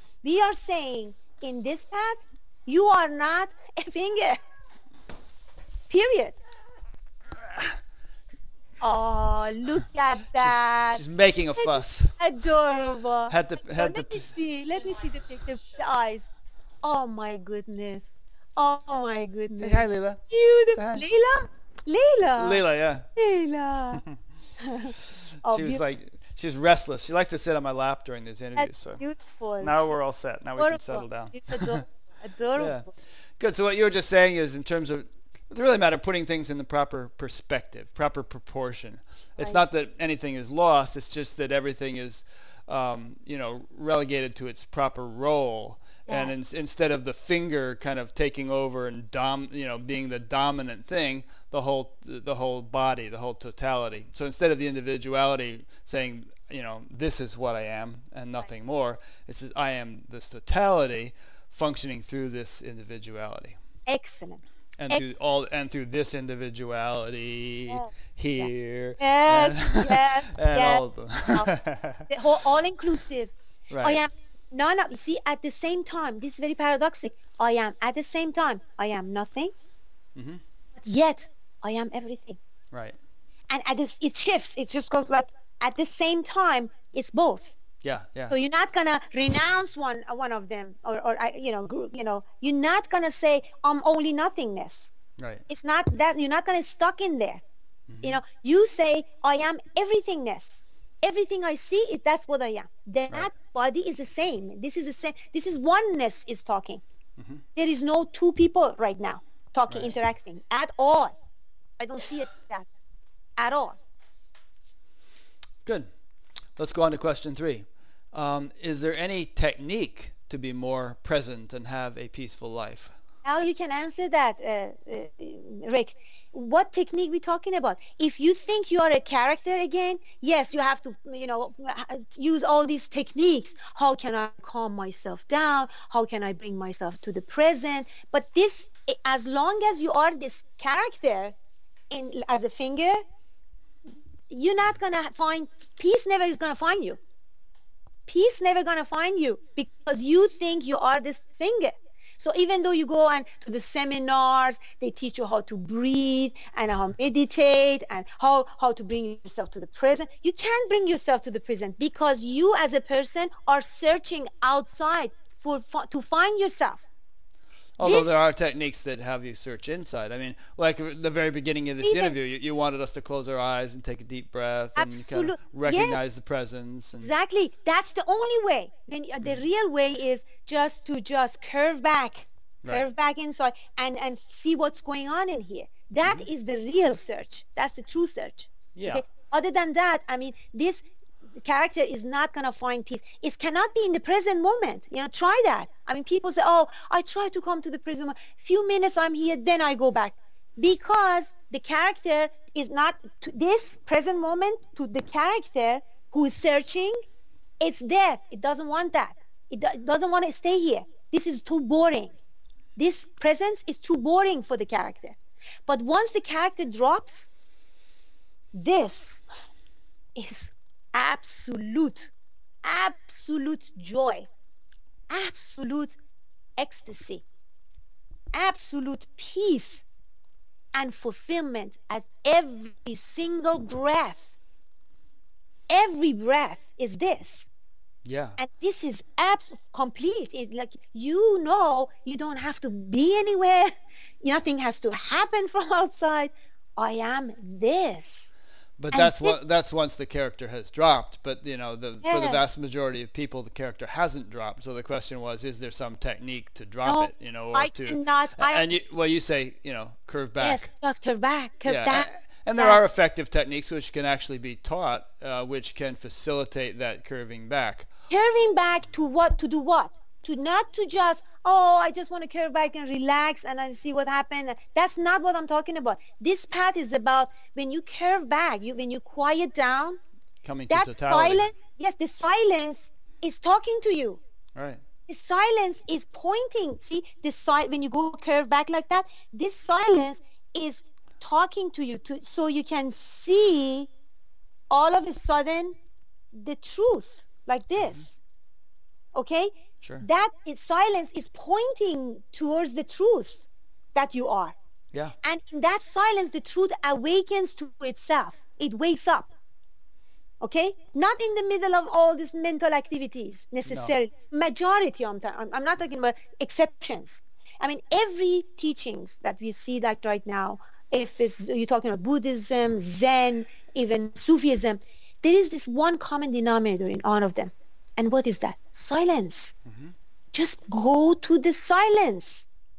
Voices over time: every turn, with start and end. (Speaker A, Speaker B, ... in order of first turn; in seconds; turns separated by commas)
Speaker A: 0.2-4.4, Speaker A: 5.9-6.4, Speaker A: 8.8-11.0, Speaker B: 10.4-12.1, Speaker A: 11.6-16.3, Speaker B: 13.3-14.2, Speaker A: 16.8-22.6, Speaker B: 19.6-20.2, Speaker B: 20.7-21.1, Speaker B: 22.4-23.1, Speaker A: 23.1-24.0, Speaker A: 24.6-25.8, Speaker B: 25.5-29.0, Speaker A: 28.6-29.8, Speaker B: 29.6-31.8, Speaker A: 30.6-32.9, Speaker B: 32.5-32.9, Speaker B: 33.4-63.6, Speaker A: 46.1-46.3, Speaker A: 63.9-65.2, Speaker B: 64.8-72.1, Speaker A: 67.7-71.5, Speaker A: 72.1-79.5, Speaker B: 73.7-74.0, Speaker B: 80.2-80.4, Speaker A: 80.8-82.4, Speaker A: 83.5-87.5, Speaker B: 87.8-88.3, Speaker A: 88.3-94.9, Speaker B: 95.2-95.4, Speaker A: 95.5-97.4, Speaker B: 97.9-98.2, Speaker A: 98.0-106.8, Speaker B: 107.2-107.4, Speaker A: 107.5-111.1, Speaker B: 109.7-109.9, Speaker A: 111.8-112.7, Speaker A: 113.4-113.8, Speaker B: 116.6-122.9, Speaker A: 123.2-141.3, Speaker A: 141.9-143.0, Speaker A: 144.3-147.0, Speaker A: 148.1-166.8, Speaker B: 167.8-177.1, Speaker A: 167.8-168.1, Speaker A: 171.8-172.1, Speaker A: 174.8-176.0, Speaker A: 177.0-190.8, Speaker B: 188.7-189.0, Speaker A: 191.4-206.9, Speaker A: 207.6-212.2, Speaker A: 212.8-217.3, Speaker A: 218.5-219.2, Speaker A: 220.2-222.1, Speaker A: 222.6-224.3, Speaker A: 225.1-226.0, Speaker A: 226.6-227.2, Speaker A: 228.3-229.8, Speaker A: 230.7-234.3, Speaker A: 235.7-237.5, Speaker B: 238.0-238.4, Speaker A: 238.4-243.7, Speaker A: 244.2-248.3, Speaker B: 248.8-260.7, Speaker A: 248.9-249.4, Speaker A: 252.0-252.4, Speaker A: 256.8-258.7, Speaker A: 260.4-262.8, Speaker B: 261.6-267.9, Speaker A: 268.1-280.0, Speaker B: 280.4-281.5, Speaker A: 280.7-284.2, Speaker B: 284.5-284.8, Speaker A: 285.1-293.9, Speaker A: 294.7-295.8, Speaker A: 296.3-298.2, Speaker A: 299.1-304.6, Speaker A: 305.2-309.3, Speaker A: 310.4-329.5, Speaker B: 313.6-313.9, Speaker B: 329.7-329.9, Speaker A: 330.3-332.4